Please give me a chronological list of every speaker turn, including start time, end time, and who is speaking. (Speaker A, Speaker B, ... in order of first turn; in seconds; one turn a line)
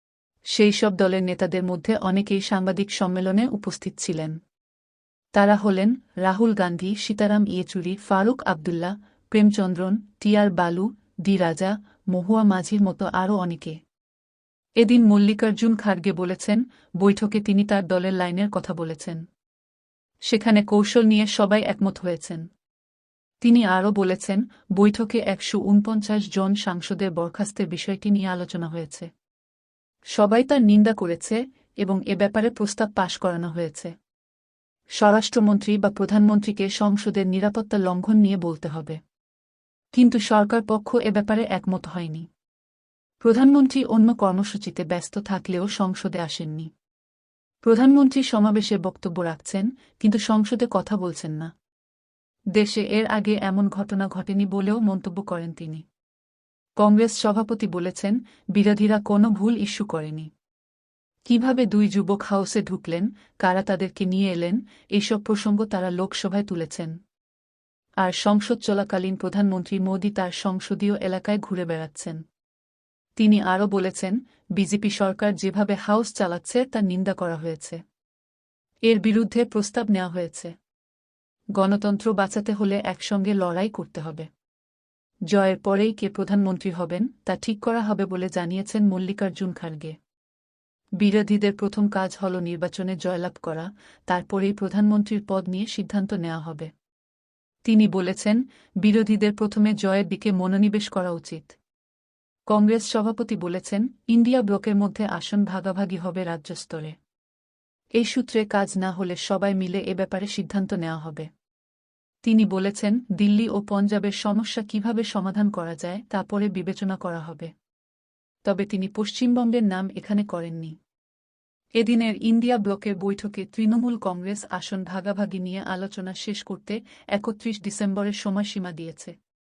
Speaker A: 0.5-4.4
Speaker A: 5.3-13.8
Speaker A: 14.8-19.2
Speaker A: 20.3-22.5
Speaker A: 23.4-29.1
Speaker A: 30.1-33.9
Speaker A: 35.0-39.0
Speaker A: 39.9-42.3
Speaker A: 43.2-46.7
Speaker A: 47.6-51.5
Speaker A: 52.5-55.9
Speaker A: 56.8-60.3
Speaker A: 61.3-67.0
Speaker A: 68.0-72.2
Speaker A: 73.2-77.8
Speaker A: 78.9-80.5
Speaker A: 81.5-84.3
Speaker A: 85.3-90.0
Speaker A: 91.0-96.7
Speaker A: 97.7-101.6
Speaker A: 102.5-107.0
Speaker A: 108.0-111.3
Speaker A: 112.2-117.5
Speaker A: 118.5-120.8
Speaker A: 121.8-129.2